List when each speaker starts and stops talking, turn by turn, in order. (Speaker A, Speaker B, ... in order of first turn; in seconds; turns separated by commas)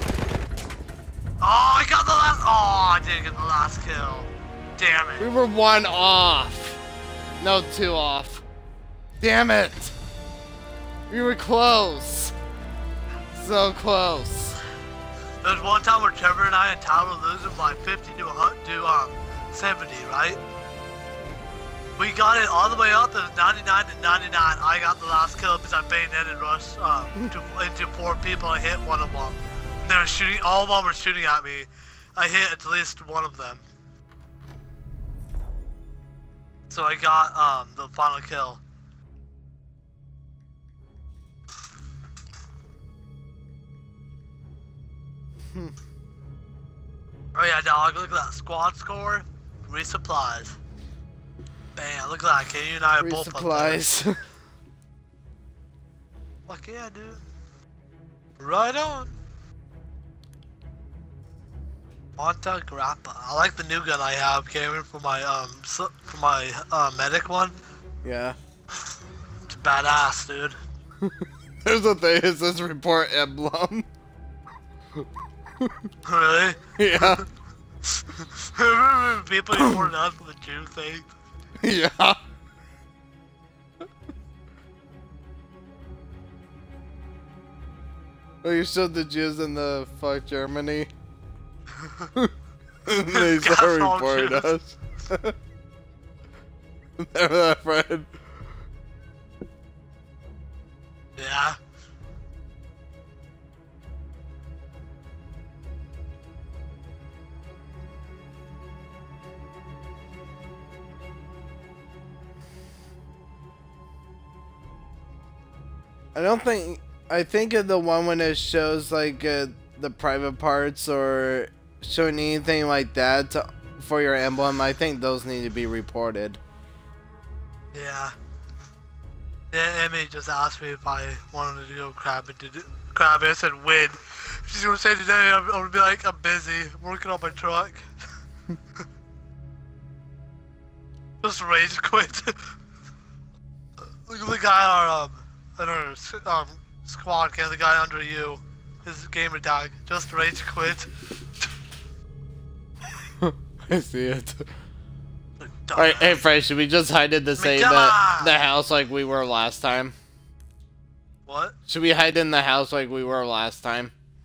Speaker A: 1.4-5.3, Speaker B: 5.2-6.8, Speaker B: 7.4-8.4, Speaker B: 9.2-9.9, Speaker B: 11.1-12.3, Speaker B: 13.3-14.6, Speaker A: 15.4-20.4, Speaker A: 22.0-33.6, Speaker A: 36.7-38.6, Speaker A: 47.3-50.6, Speaker A: 51.8-53.8, Speaker B: 53.0-54.2, Speaker A: 56.5-57.2, Speaker A: 58.4-59.1, Speaker A: 62.2-67.5, Speaker B: 68.0-68.4, Speaker A: 69.5-70.6, Speaker B: 71.0-73.9, Speaker B: 75.6-75.9, Speaker A: 76.0-77.2, Speaker B: 76.8-77.2, Speaker A: 77.9-81.1, Speaker B: 79.6-79.9, Speaker B: 81.6-82.2, Speaker B: 88.4-90.9, Speaker A: 91.8-92.1, Speaker B: 92.8-95.3, Speaker A: 93.1-94.5, Speaker B: 97.0-98.2, Speaker A: 101.2-101.6, Speaker B: 116.1-126.4, Speaker A: 127.7-128.1, Speaker A: 129.5-137.9, Speaker A: 141.2-142.5, Speaker A: 144.1-150.9, Speaker B: 153.2-154.5, Speaker A: 155.4-156.2, Speaker B: 155.7-159.9, Speaker A: 157.4-158.3, Speaker A: 161.3-161.5, Speaker B: 161.7-163.9